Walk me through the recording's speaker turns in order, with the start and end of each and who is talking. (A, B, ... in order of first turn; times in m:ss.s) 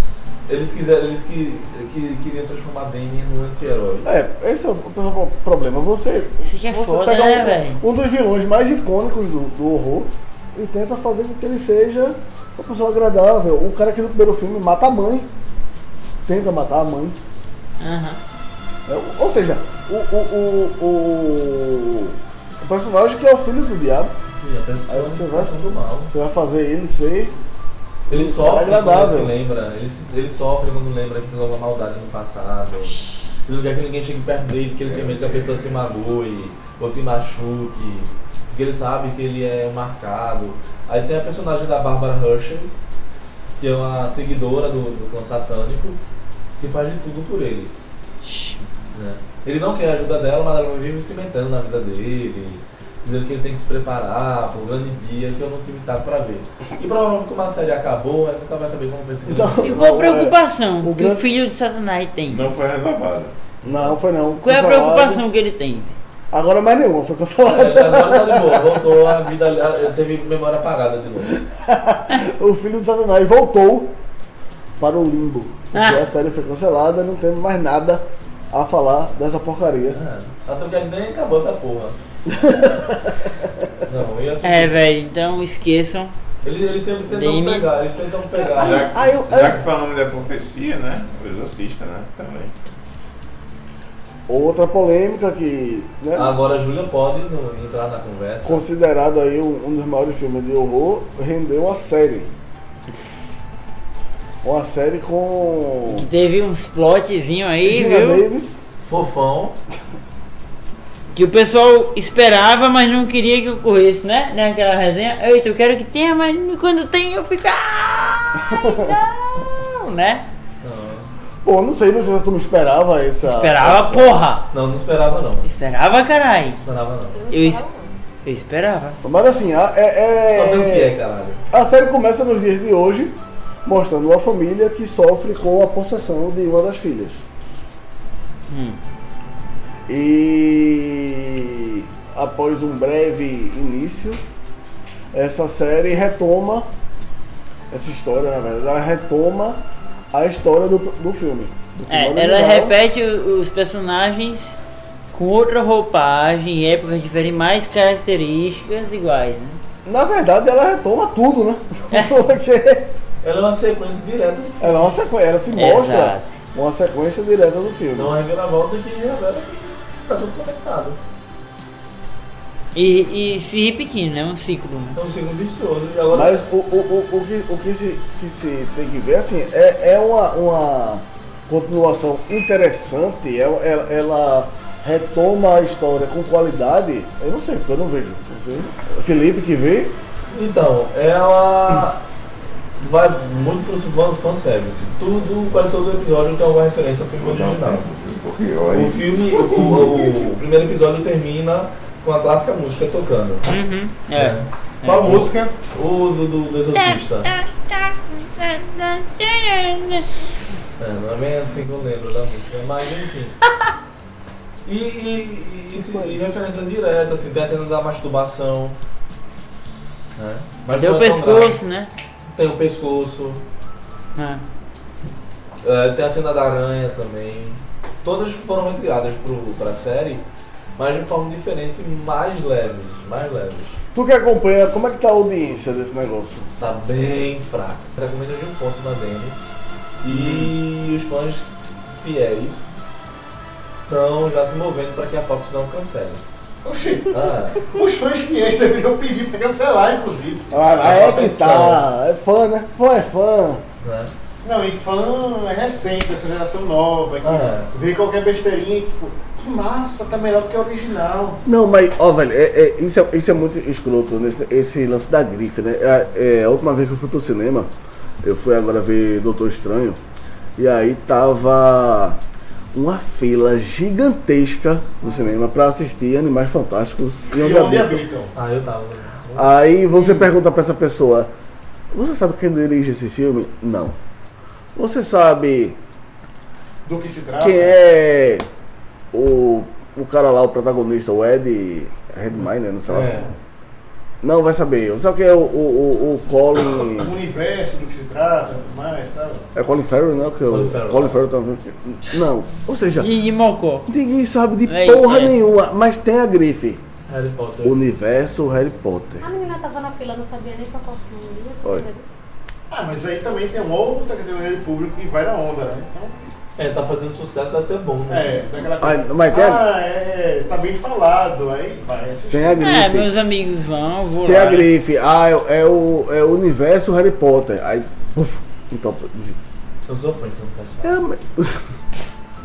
0:00.5-0:04.1 A
0:04.0-0:15.3 B
0:06.4-0:07.8 C
0:16.2-0:17.2 B
0:17.8-0:18.2 C
0:18.9-0:24.1 B
0:24.3-0:26.1 A
0:24.9-0:27.3 B
0:28.1-0:29.3 B
0:28.1-0:42.7 A
0:35.0-0:35.6 D
0:43.6-0:46.0 A
0:46.6-0:47.7 A
0:48.2-0:48.6 C
0:48.9-0:59.8 A
0:59.2-1:01.2 B
0:59.6-1:02.6 C
1:02.3-1:03.3 D
1:03.6-1:05.2 B
1:03.6-1:03.9 A
1:04.4-1:06.0 C
1:06.3-1:09.0 B
1:07.4-1:11.4 A
1:11.3-1:14.0 B
1:14.8-1:20.0 B
1:15.7-1:16.0 C
1:19.9-1:22.0 A
1:22.3-1:23.3 B
1:23.8-1:24.8 A
1:24.4-1:26.1 C
1:26.4-1:29.1 A
1:27.1-1:27.7 C
1:28.3-1:29.6 B
1:28.6-1:32.5 D
1:34.3-1:36.4 B
1:36.1-1:38.6 A
1:38.4-1:42.3 B
1:44.4-1:46.0 B
1:45.9-1:48.2 C
1:47.6-1:48.6 B
1:48.8-1:49.6 A
1:51.1-2:00.2 C
1:58.5-1:58.9 B
2:00.6-2:01.1 A
2:01.4-2:04.1 B
2:03.2-2:04.4 C
2:04.5-2:05.4 A
2:05.4-2:06.6 C
2:06.6-2:07.2 A
2:07.1-2:07.9 E
2:07.3-2:07.6 C
2:08.2-2:09.0 C
2:09.0-2:10.9 B
2:10.3-2:11.4 A
2:11.5-2:17.2 B
2:18.5-2:18.8 C
2:19.9-2:24.2 B
2:25.1-2:26.7 B
2:27.7-2:29.6 B
2:30.1-2:32.8 B
2:31.9-2:34.6 C
2:35.1-2:39.6 C
2:39.8-2:42.9 B
2:43.2-2:45.0 A
2:44.6-2:48.1 B
2:45.5-2:46.3 C
2:47.9-2:51.0 A
2:52.7-2:55.0 C
2:55.0-2:56.4 A
2:56.1-3:09.9 B
3:10.3-3:12.0 A
3:12.8-3:17.8 A
3:17.2-3:19.9 D
3:18.7-3:23.4 A
3:19.4-3:20.1 B
3:23.5-3:25.3 C
3:24.1-3:24.5 A
3:24.8-3:25.5 F
3:25.7-3:27.3 A
3:26.7-3:30.2 C
3:30.8-3:33.4 A
3:34.6-3:38.8 A
3:35.8-3:36.3 B
3:40.2-3:41.6 A
3:40.7-3:41.9 C
3:42.3-3:43.4 A
3:44.2-3:44.4 C
3:45.6-3:50.2 A
3:50.8-3:53.8 A
3:53.9-3:56.5 B
3:56.6-3:59.4 A
4:00.0-4:02.6 A
4:00.1-4:00.5 F
4:03.9-4:06.2 A
4:06.6-4:10.7 F
4:07.1-4:07.6 A
4:10.5-4:13.6 B
4:10.8-4:11.8 A
4:13.8-4:14.1 A
4:14.4-4:21.4 F
4:17.2-4:17.7 A
4:21.4-4:27.7 B
4:28.2-4:30.0 B
4:30.6-4:32.2 B
4:32.7-4:38.0 B
4:37.3-4:38.3 F
4:38.3-4:39.5 A
4:39.4-4:41.3 B
4:41.9-4:44.0 B
4:44.8-4:45.8 B
4:46.8-4:47.8 F
4:47.4-4:48.5 B
4:49.1-4:53.1 B
4:52.9-4:53.3 A
4:54.2-4:57.1 B
4:56.9-4:59.5 F
4:59.5-5:03.1 B
5:00.5-5:01.2 A
5:03.0-5:03.9 C
5:03.9-5:06.8 B
5:04.7-5:05.3 C
5:07.1-5:07.8 A
5:07.6-5:09.3 B
5:09.2-5:12.1 E
5:12.7-5:16.3 F
5:16.6-5:18.4 A
5:18.1-5:22.7 F
5:18.8-5:19.6 B
5:22.3-5:23.1 B
5:22.6-5:24.7 C
5:24.2-5:29.4 B
5:29.9-5:31.0 A
5:30.8-5:31.6 B